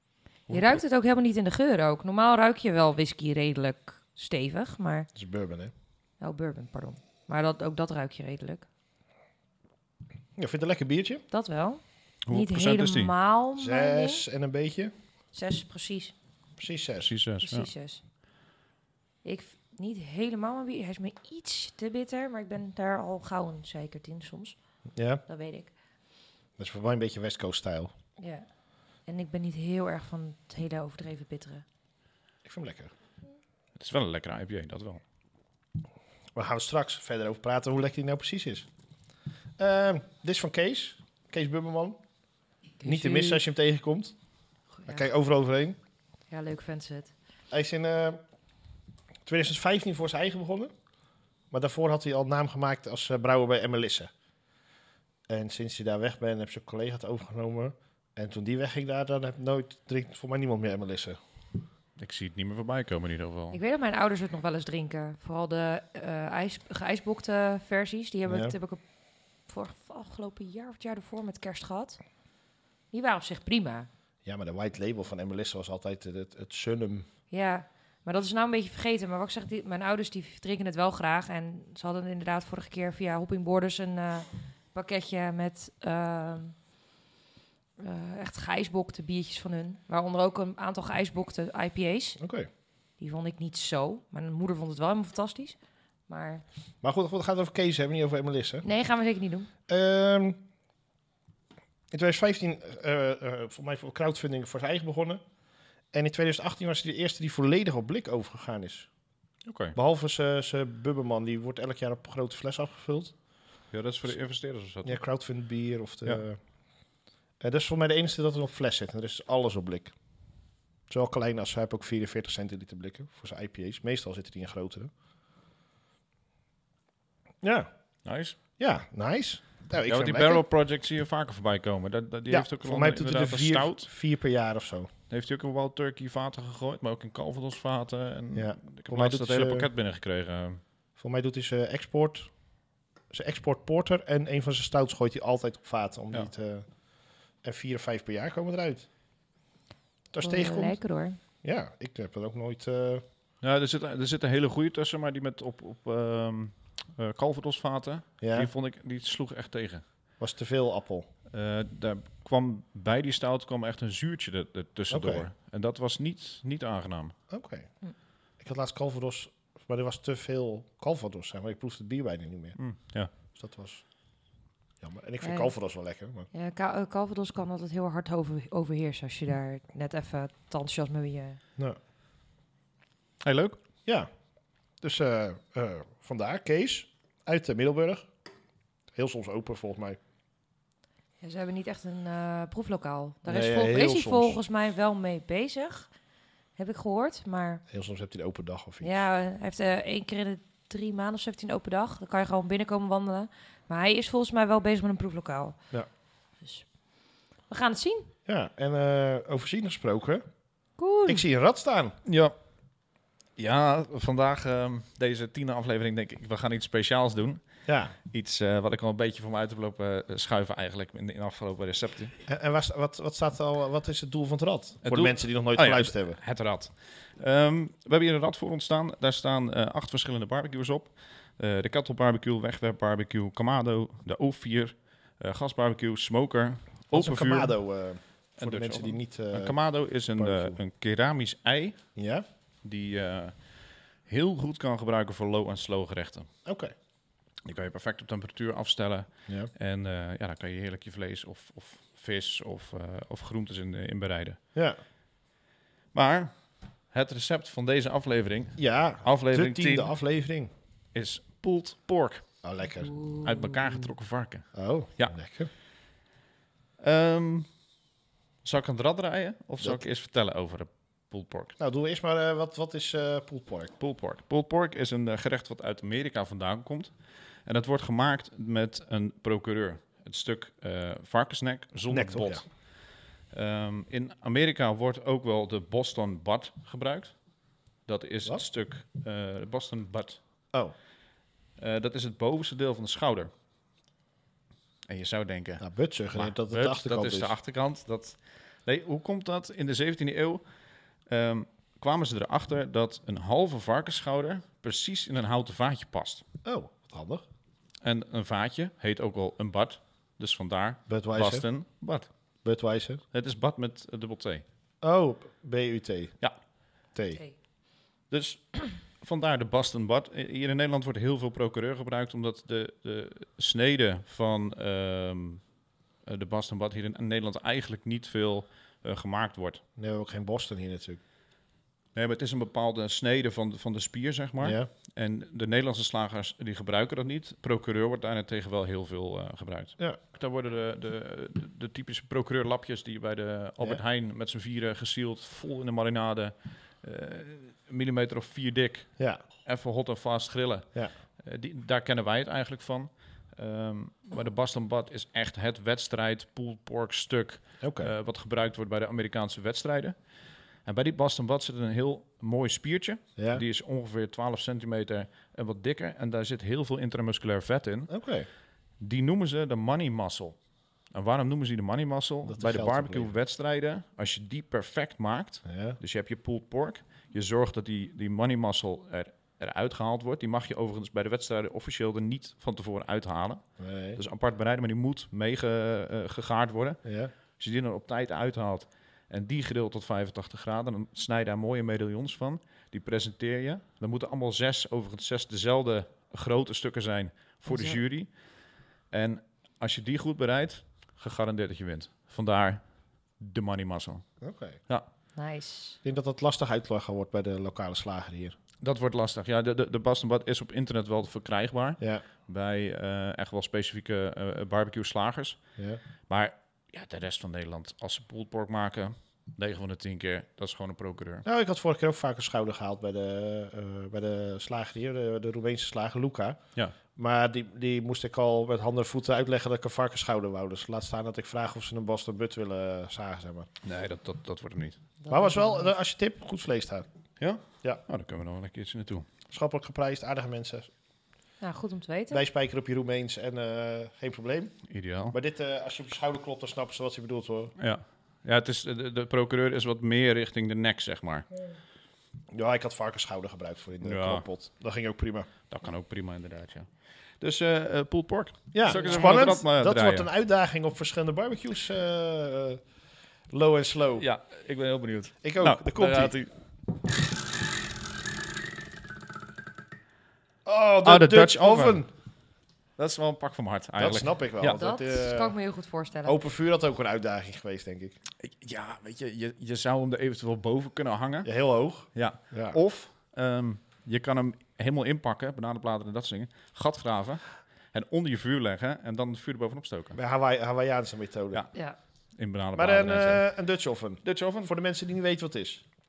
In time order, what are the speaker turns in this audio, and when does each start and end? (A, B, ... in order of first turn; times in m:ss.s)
0:00.5-0:00.8 A
0:00.5-0:05.1 B
0:05.1-0:05.7 C
0:06.2-0:08.6 B
0:10.4-0:11.2 C
0:11.3-0:14.2 B
0:12.2-0:13.1 A
0:13.6-0:14.9 C
0:15.3-0:16.1 B
0:16.6-0:17.1 C
0:17.0-0:17.7 A
0:17.4-0:18.0 B
0:19.2-0:24.6 B
0:24.9-0:25.2 C
0:25.3-0:25.7 B
0:26.6-0:27.9 C
0:28.2-0:28.4 B
0:29.0-0:31.6 B
0:32.4-0:32.9 C
0:33.8-0:35.0 A
0:36.3-0:38.7 C
0:39.6-0:42.0 C
0:42.8-0:43.4 B
0:42.8-0:44.1 C
0:44.7-0:45.1 B
0:44.8-0:45.8 C
0:46.3-0:47.1 B
0:47.5-0:48.2 C
0:49.2-0:50.7 C
0:51.5-0:54.1 C
0:55.3-1:01.2 C
1:02.0-1:03.6 A
1:03.5-1:08.8 B
1:08.3-1:08.5 C
1:09.5-1:12.0 B
1:12.9-1:13.9 B
1:14.2-1:17.1 C
1:17.3-1:26.6 B
1:27.8-1:32.2 B
1:32.2-1:32.5 C
1:33.0-1:35.6 B
1:36.1-1:36.4 B
1:36.8-1:38.6 C
1:38.6-1:39.5 B
1:39.7-1:40.4 C
1:41.9-1:45.2 C
1:45.9-1:48.9 C
1:49.4-1:49.8 A
1:49.7-1:53.1 C
1:53.7-1:55.0 A
1:54.8-1:56.4 C
1:57.4-1:59.9 C
2:00.9-2:04.9 C
2:07.4-2:07.7 C
2:08.0-2:08.4 A
2:08.6-2:10.4 C
2:09.9-2:13.9 A
2:12.3-2:14.9 C
2:15.1-2:20.6 A
2:18.3-2:19.7 C
2:21.0-2:22.3 C
2:23.1-2:26.7 C
2:27.4-2:28.9 C
2:30.1-2:30.8 C
2:30.2-2:31.2 B
2:31.4-2:33.0 C
2:33.4-2:39.8 A
2:38.2-2:38.5 C
2:40.2-2:41.1 C
2:41.3-2:47.1 A
2:44.9-2:45.3 C
2:47.3-2:47.7 C
2:48.4-2:52.6 C
2:52.6-2:53.1 A
2:53.3-2:53.8 C
2:54.8-2:56.3 C
2:55.2-2:55.5 B
2:56.3-3:01.4 B
3:03.2-3:03.6 A
3:04.8-3:08.1 C
3:08.9-3:10.0 C
3:11.2-3:15.9 B
3:13.3-3:14.4 C
3:16.6-3:17.6 B
3:17.7-3:19.0 C
3:18.8-3:25.6 B
3:26.4-3:26.7 B
3:27.5-3:28.1 B
3:28.2-3:30.2 C
3:30.8-3:31.2 B
3:31.0-3:31.9 C
3:32.0-3:32.3 A
3:33.4-3:37.4 A
3:37.7-3:38.0 C
3:38.0-3:42.1 A
3:42.3-3:46.2 C
3:44.8-3:57.6 A
3:56.9-3:59.6 C
3:58.4-4:01.8 A
4:00.2-4:00.6 C
4:02.0-4:02.2 C
4:02.6-4:03.3 A
4:04.1-4:06.3 A
4:06.4-4:06.7 C
4:07.4-4:14.4 A
4:14.5-4:14.8 C
4:15.9-4:16.3 A
4:16.9-4:19.9 A
4:18.6-4:20.5 C
4:20.9-4:22.2 A
4:22.4-4:22.9 C
4:22.8-4:23.8 B
4:23.2-4:25.1 A
4:24.5-4:25.5 C
4:26.8-4:27.5 A
4:28.4-4:31.5 A
4:31.6-4:33.7 C
4:33.8-4:36.9 A
4:37.4-4:42.5 A
4:41.9-4:42.4 C
4:43.3-4:47.1 A
4:47.8-4:50.2 A
4:51.6-4:53.3 A
4:54.9-5:00.4 A
4:55.6-4:57.3 C
5:01.1-5:06.2 A
5:06.4-5:07.2 C
5:07.8-5:12.1 A
5:10.9-5:11.4 C
5:12.4-5:13.0 C
5:13.1-5:14.4 A
5:14.8-5:16.1 C
5:16.9-5:17.2 C
5:18.1-5:25.4 A
5:26.0-5:29.6 A
5:29.8-5:31.0 C
5:31.9-5:59.9 A
5:34.4-5:34.7 C
5:57.6-5:57.9 C
6:00.6-6:07.9 A
6:03.2-6:03.4 C
6:07.9-6:08.3 C
6:08.8-6:10.4 A
6:10.9-6:23.4 A
6:12.2-6:13.1 C
6:15.4-6:15.8 C
6:23.6-6:24.0 C
6:24.0-6:26.8 A
6:26.8-6:27.1 C
6:27.4-6:38.1 A
6:37.5-6:37.8 B
6:38.9-6:42.6 A
6:43.2-6:44.0 A
6:44.2-6:44.6 C
6:45.2-6:45.8 B
6:45.8-6:48.4 C
6:48.6-6:55.4 A
6:51.8-6:52.0 C
6:56.1-7:01.2 A
7:01.2-7:06.4 C
7:06.9-7:13.5 C
7:13.6-7:14.8 A
7:15.0-7:15.7 B
7:15.1-7:16.9 C
7:17.2-7:19.1 A
7:19.3-7:20.7 C
7:21.4-7:22.2 B
7:22.1-7:24.6 C
7:24.7-7:25.2 A
7:25.1-7:27.5 C
7:27.6-7:31.3 A
7:32.3-7:35.3 C
7:33.8-7:34.3 A
7:35.5-7:36.7 A
7:37.2-7:40.1 A
7:38.5-7:42.6 C
7:38.6-7:39.1 B
7:43.3-7:44.0 C
7:44.0-7:46.3 A
7:45.2-7:46.2 C
7:50.4-7:51.9 C
7:50.8-7:51.8 A
7:52.8-7:54.6 A
7:53.8-7:55.3 C
7:54.5-7:56.2 B
7:56.0-7:58.0 C
7:58.2-8:01.3 A
8:01.2-8:02.6 C
8:01.9-8:10.0 A
8:09.9-8:11.4 C
8:12.2-8:13.2 A
8:12.5-8:15.6 C
8:14.0-8:14.5 A